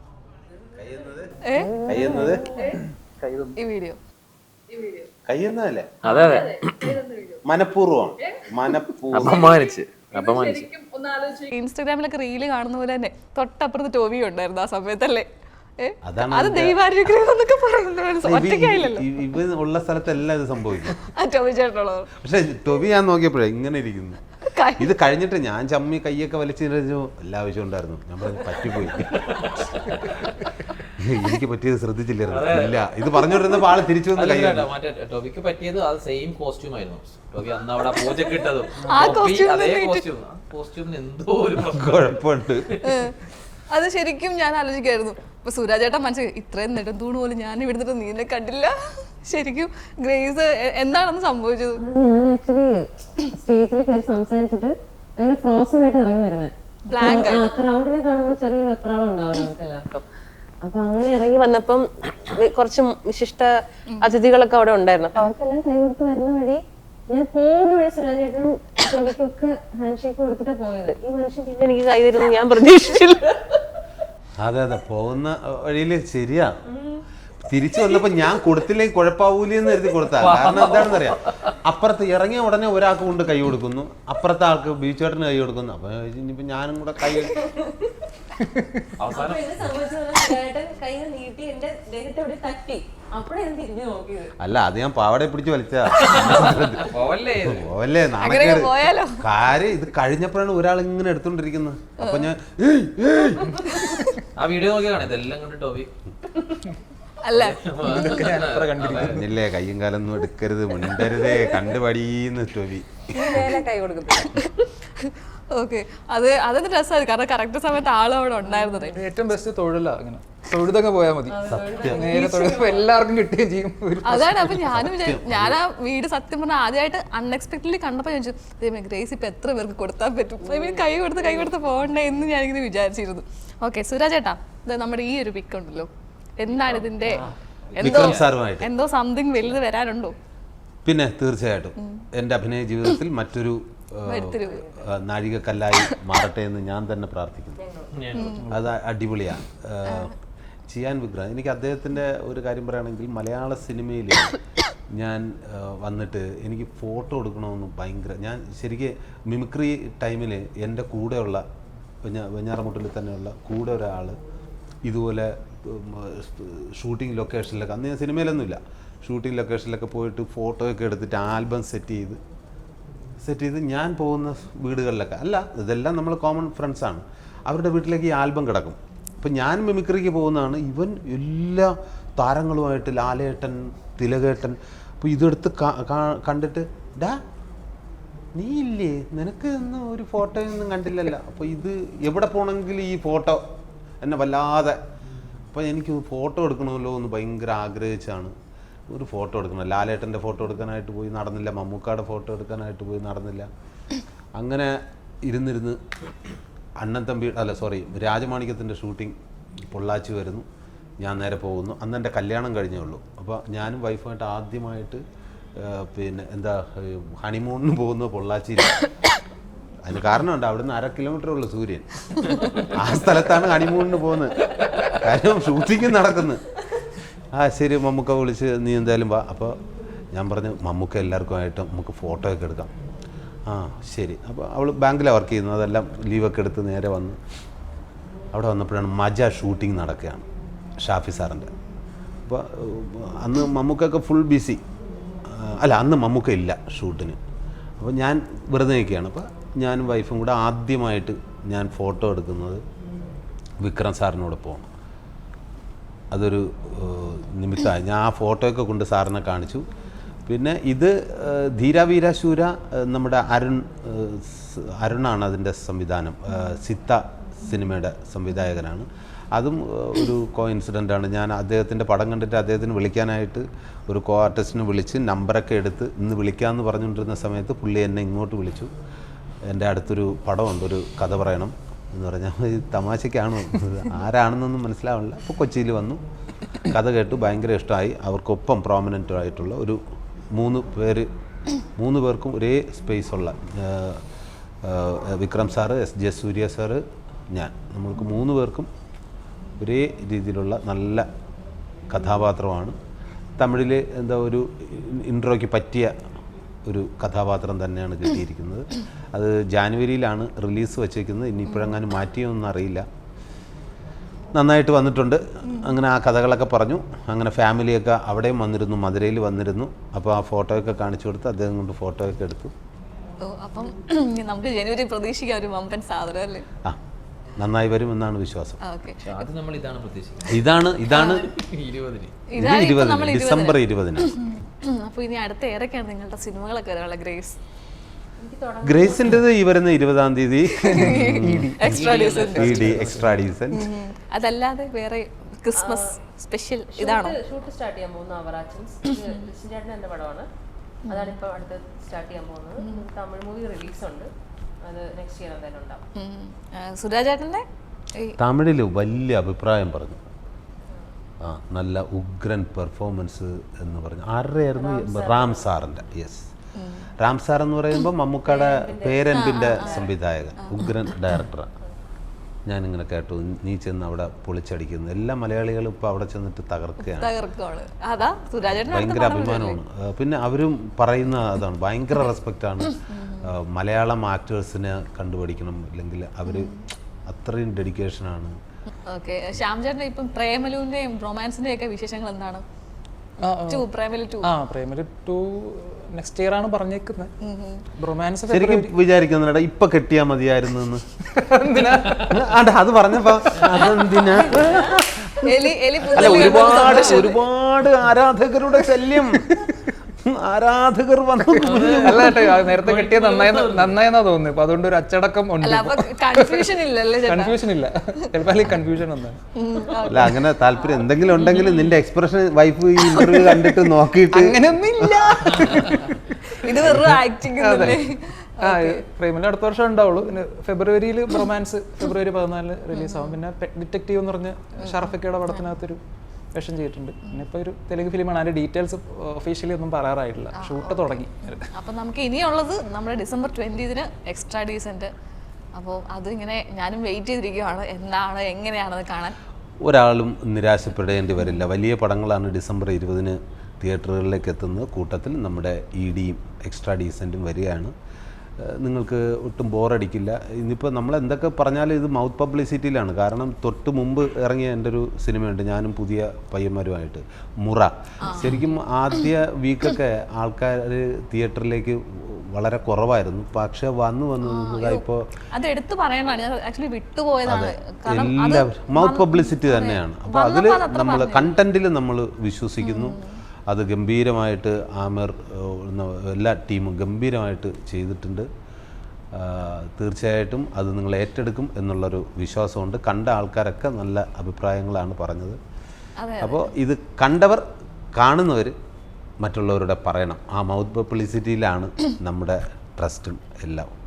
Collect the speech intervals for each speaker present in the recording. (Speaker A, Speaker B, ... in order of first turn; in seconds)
Speaker A: 0.7-2.5, 5.2-5.9, 7.4-9.5, 16.0-16.8, 18.2-20.9, 22.2-24.2, 24.8-29.3, 31.0-34.7, 41.7-42.7, 74.4-76.6, 77.5-87.4, 94.4-103.6, 109.0-113.4, 121.5-122.2, 124.8-125.6, 137.8-138.7, 140.8-147.6, 148.5-150.1, 150.7-154.3, 154.9-161.4, 162.0-164.2, 164.8-172.2, 173.2-187.2, 188.3-193.4, 194.0-194.8, 195.5-198.3, 198.9-203.5, 204.3-205.8, 206.8-209.2, 209.7-210.5, 211.0-215.0, 215.6-218.8, 219.8-226.4, 227.3-229.6, 230.1-232.7, 233.5-237.2, 238.3-240.2, 240.8-241.5, 242.2-244.6, 245.2-247.2, 247.8-252.6, 253.6-254.7, 256.1-259.6, 260.2-278.7, 279.4-286.0, 286.6-289.8, 290.3-291.1, 291.7-294.0, 294.6-298.7, 299.6-301.1, 301.9-302.8, 303.4-305.9, 306.6-312.9, 314.3-322.5, 327.4-328.6, 330.3-331.3, 332.4-334.1, 338.6-341.7, 342.3-343.7, 358.2-360.0, 361.2-366.2, 367.0-371.5, 372.5-377.1, 378.5-386.5, 387.1-388.4, 398.3-400.8, 402.0-405.3, 405.8-409.4, 410.0-412.1, 419.9-425.1, 449.6-457.7, 458.4-475.0, 477.2-488.3, 489.1-495.4, 496.2-498.6, 499.2-503.7
Speaker B: 1.4-1.7, 3.5-4.0, 4.7-5.1, 6.0-7.4, 10.1-15.3, 15.8-19.1, 21.0-22.1, 24.5-24.9, 33.1-33.5, 38.8-40.0, 42.8-43.1, 43.7-51.8, 56.9-57.6, 63.9-64.1, 98.2-99.2, 102.0-102.3, 103.7-104.1, 107.2-108.2, 114.3-119.0, 124.0-140.1, 141.8-142.0, 144.0-144.7, 148.1-148.5, 149.8-150.1, 323.2-326.4, 328.6-329.3, 330.9-331.2, 332.3-337.4, 340.6-342.7, 343.6-347.1, 350.9-351.1, 352.6-352.9, 355.9-357.4, 366.6-366.9, 369.1-369.8, 370.4-370.7, 376.8-379.6, 382.7-383.3, 386.3-386.5, 388.9-392.4, 393.5-394.3, 397.2-397.6, 404.0-404.6, 405.1-407.2, 415.4-417.5, 419.3-421.7, 426.3-428.8, 432.7-433.1, 434.6-435.5, 440.3-441.0, 441.5-444.9, 445.5-449.1, 468.0-468.4, 474.2-481.3, 482.6-483.1, 496.0-496.5
Speaker C: 1.5-2.8, 51.8-60.0, 60.6-73.6, 76.7-77.0, 87.4-87.9, 89.1-94.3, 113.1-114.6, 121.3-122.9, 130.5-130.8, 144.4-144.7, 147.6-147.9, 338.2-339.2, 345.6-345.9, 346.7-350.3, 350.9-354.1, 354.6-355.8, 364.6-365.4, 368.3-369.9, 404.3-404.8
Speaker D: 3.2-3.5, 6.0-6.9, 9.1-10.7, 29.1-29.6, 32.3-32.8, 34.1-42.1, 80.1-81.5, 89.0-89.7, 96.0-97.7, 104.3-105.9, 107.3-109.2, 137.8-138.3, 147.9-148.3, 329.0-332.2, 341.6-343.1, 411.6-413.7
Speaker E: 88.4-88.9, 107.9-109.2, 118.9-124.7, 340.6-341.8, 342.4-343.6, 393.2-393.7, 394.2-397.1, 397.8-398.7, 401.1-402.2, 409.3-409.7, 411.3-419.2, 422.9-423.5, 424.1-435.8, 436.3-441.5